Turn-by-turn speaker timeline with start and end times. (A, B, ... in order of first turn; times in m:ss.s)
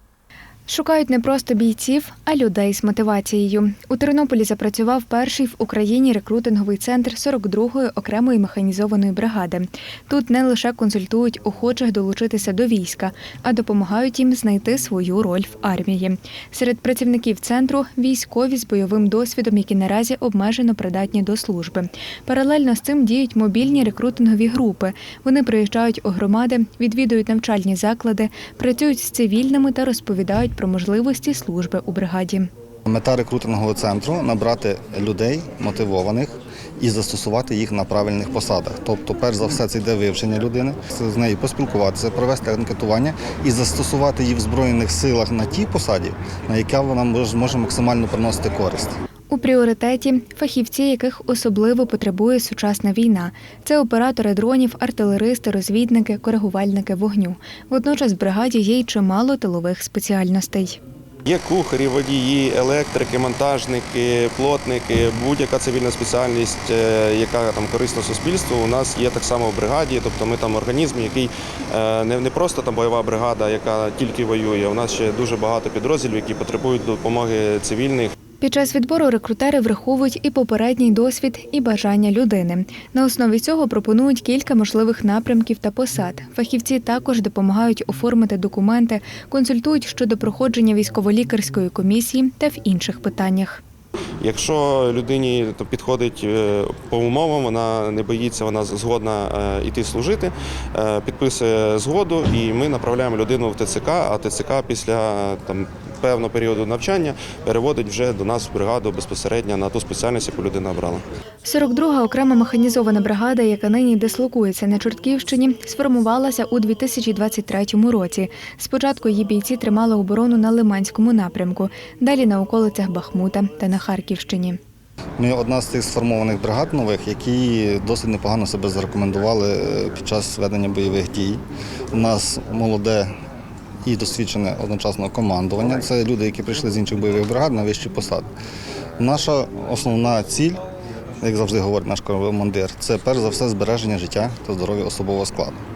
0:00.7-0:32.5 A
0:32.9-0:49.0 B
0:49.3-1:00.8 A
1:01.2-1:18.1 C
1:18.4-1:33.6 A
1:34.2-1:51.0 C
1:51.4-2:04.6 A
2:05.2-2:11.4 B
2:11.9-2:13.1 B
2:13.8-2:18.3 B
2:19.0-2:20.6 B
2:21.2-2:25.6 B